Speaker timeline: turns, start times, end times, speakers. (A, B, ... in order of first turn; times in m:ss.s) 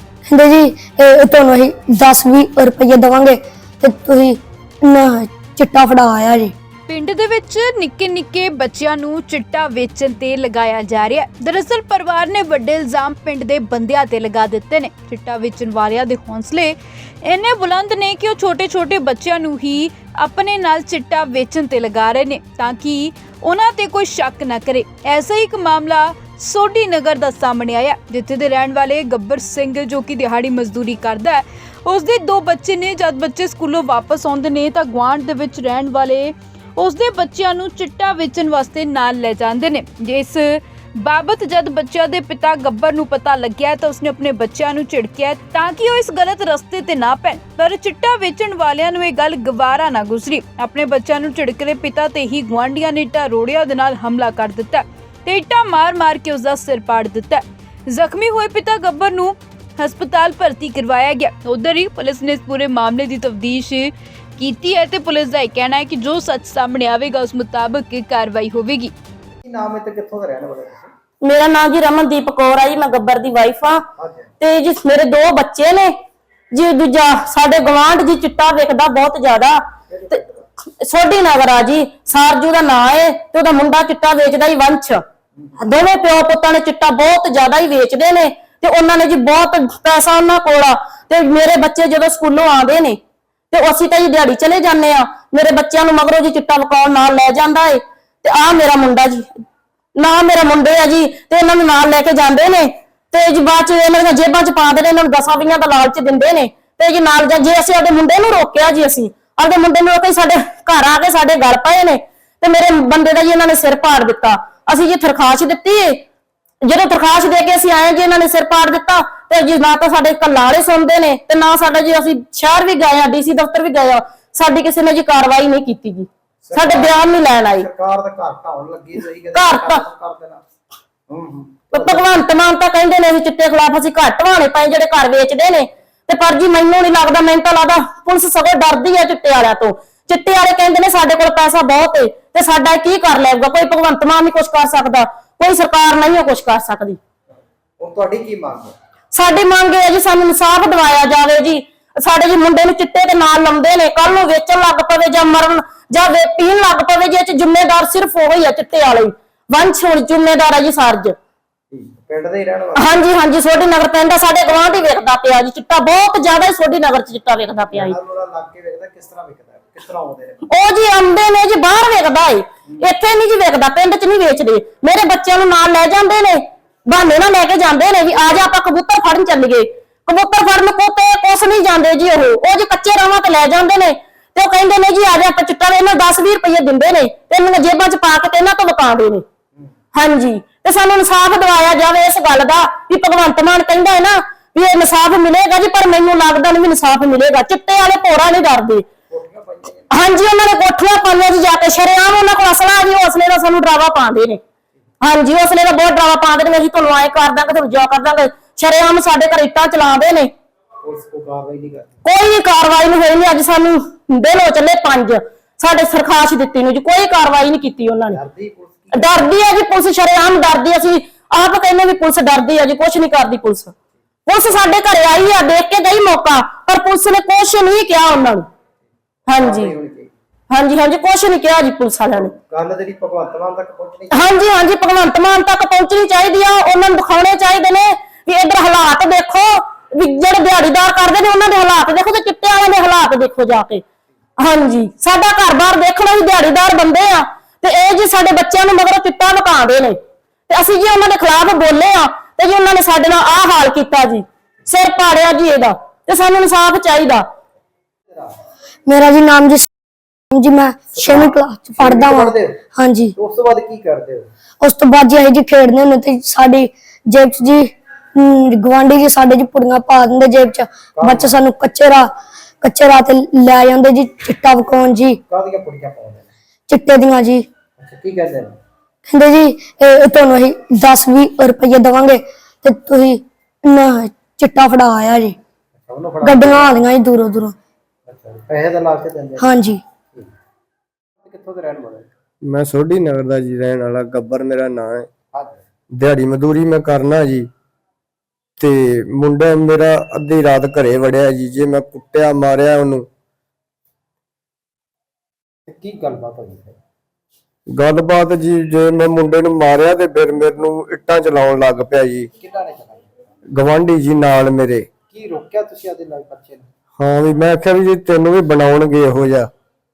0:00.3-0:06.5 A
0:06.9-1:08.9 B
1:09.4-1:10.9 C
1:11.2-1:13.8 D
1:14.0-1:14.3 C
1:14.4-1:15.9 D
1:16.5-1:20.2 D
1:19.9-1:20.5 C
1:20.8-1:25.0 D
1:25.6-1:33.0 D
1:33.5-1:39.3 D
1:40.0-1:56.0 D
1:56.6-2:07.6 D
2:06.4-2:10.4 C
2:09.3-2:09.8 D
2:11.1-2:12.1 C
2:11.7-2:27.0 D
2:27.8-2:28.7 C
2:29.1-2:41.2 D
2:41.7-2:42.9 C
2:42.8-2:48.0 D
2:47.7-2:50.4 C
2:50.5-3:09.2 D
3:09.9-3:18.8 D
3:19.1-3:19.9 C
3:19.9-3:24.4 D
3:25.0-3:30.3 D
3:30.8-3:31.9 C
3:32.0-3:38.2 D
3:38.1-3:39.2 C
3:38.9-3:43.7 D
3:44.3-3:48.4 D
3:49.3-3:49.7 D
3:49.4-3:50.1 C
3:50.5-3:52.3 D
3:52.5-3:54.2 C
3:54.1-4:03.8 D
4:04.4-4:10.0 D
4:10.5-4:17.2 D
4:18.9-4:19.7 A
4:20.3-4:23.2 A
4:20.9-4:22.6 C
4:23.2-4:24.3 C
4:24.6-4:32.1 A
4:31.0-4:31.4 C
4:32.6-4:35.2 A
4:35.3-4:36.3 C
4:36.7-4:37.5 A
4:37.8-4:38.6 C
4:39.1-4:45.4 A
4:45.8-4:46.8 C
4:46.2-4:47.6 A
4:48.1-4:49.4 C
4:49.4-4:49.8 A
4:51.2-4:52.1 C
4:52.4-4:55.1 E
4:55.3-4:55.6 C
4:55.9-4:57.5 E
4:58.6-5:03.1 E
5:05.7-5:06.8 C
5:07.7-5:12.3 E
5:12.4-5:13.1 C
5:13.5-5:14.9 E
5:15.1-5:16.7 C
5:17.0-5:19.5 E